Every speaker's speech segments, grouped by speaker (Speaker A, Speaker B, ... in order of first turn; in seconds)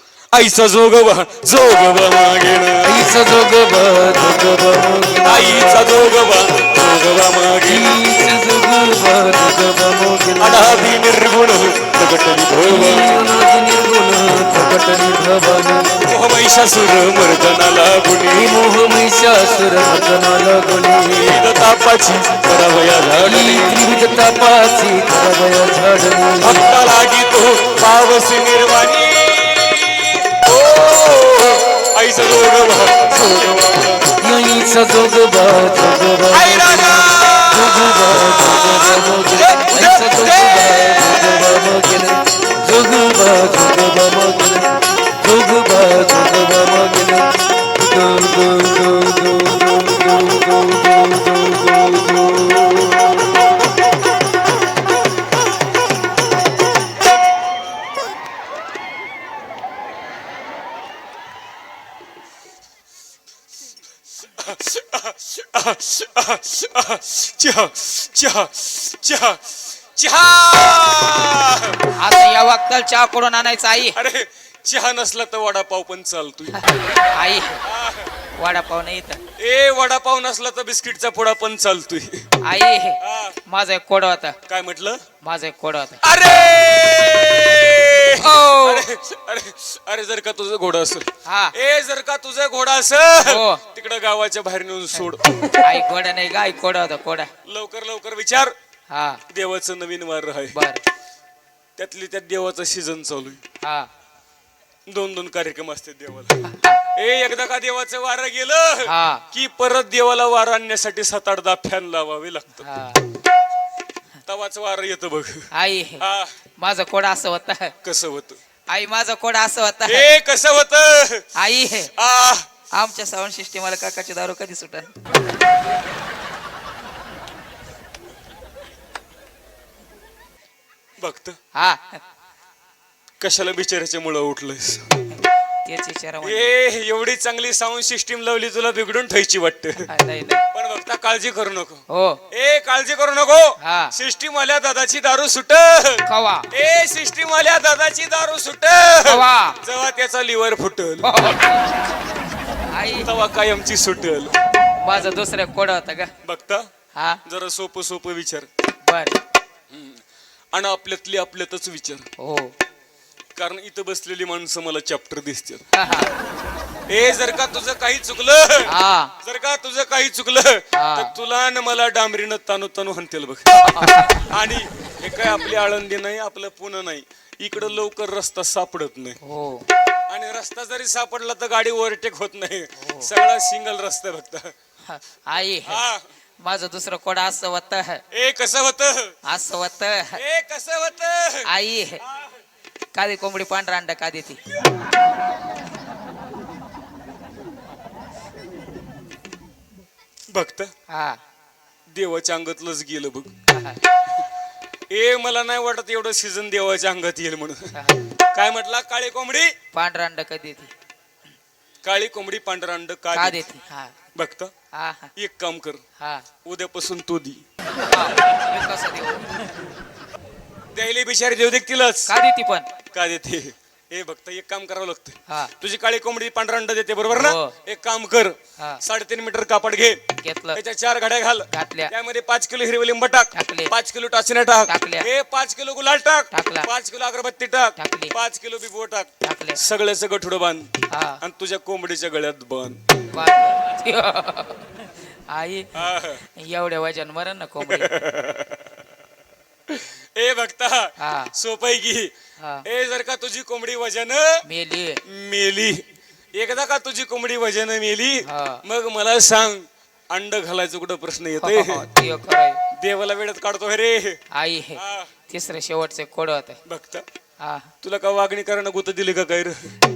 Speaker A: 0.3-3.0, 5.2-7.9, 10.4-13.1, 16.0-18.6, 21.1-23.9, 26.4-34.1, 36.3-41.4, 64.3-71.9, 73.8-76.6, 77.6-78.1, 79.4-82.3, 83.0-83.4, 84.5-85.0, 86.0-95.5, 97.4-98.5, 99.3-100.6, 101.8-103.4, 104.9-106.4, 106.9-112.7, 114.2-115.5, 116.0-116.4, 117.8-118.4, 119.8-121.3, 121.9-122.5, 131.0-131.4, 133.2-134.9, 136.2-139.9, 140.5-151.1, 153.0-154.3, 156.2-156.7, 157.2-158.5, 159.7-162.1, 163.3-165.6, 166.9-179.2, 180.1-184.5, 185.7-186.0, 188.1-189.1, 190.1-191.5, 200.3-200.7, 201.9-203.3, 204.9-207.8, 208.3-209.5, 211.8-213.4, 214.1-214.5, 215.2-215.8, 216.4-217.4, 220.7-222.1, 222.9-230.0, 230.5-242.8, 245.7-246.2, 247.6-248.7, 249.7-252.1, 252.6-254.4, 255.1-255.8, 256.3-261.9, 262.7-264.2, 264.8-265.1, 266.6-267.0, 267.8-269.7
Speaker B: 2.8-6.0, 7.7-10.9, 12.6-16.0, 18.3-21.6, 23.2-26.7, 33.1-33.5, 34.2-53.4
Speaker C: 71.9-74.0, 76.6-77.6, 78.4-79.2, 82.4-84.4, 85.2-86.0, 88.2-88.8, 91.2-91.5, 93.2-93.6, 95.6-97.3, 98.9-99.2, 100.5-100.8, 103.6-103.9, 106.4-106.8, 108.8-109.2, 112.6-113.0, 115.5-116.0, 116.6-117.7, 118.7-120.1, 121.3-121.9, 122.7-124.9, 131.5-132.0, 135.6-136.5, 139.9-140.4, 141.9-142.2, 143.6-143.9, 146.1-146.5, 149.0-149.6, 151.0-151.7, 152.7-153.1, 154.8-156.1, 156.9-157.2, 158.8-159.2, 162.2-162.5, 165.7-166.1, 168.7-169.1, 170.7-171.1, 173.8-174.1, 179.2-179.7, 182.8-183.1, 184.9-185.8, 186.4-188.0, 189.3-190.2, 191.4-192.0, 192.9-194.4, 200.9-201.2, 203.5-203.8, 207.7-208.1, 209.7-210.7, 213.1-213.9, 214.7-215.1, 216.0-216.2, 217.9-219.5, 222.1-222.7, 227.1-227.5, 230.2-230.6, 231.5-231.9, 233.3-233.7, 234.7-235.1, 236.3-236.7, 237.8-238.1, 239.2-239.6, 240.9-241.2, 243.1-245.7, 246.2-247.9, 251.0-251.3, 252.4-252.6, 254.4-255.0, 258.2-258.6, 261.4-262.6, 264.3-266.6, 267.4-267.7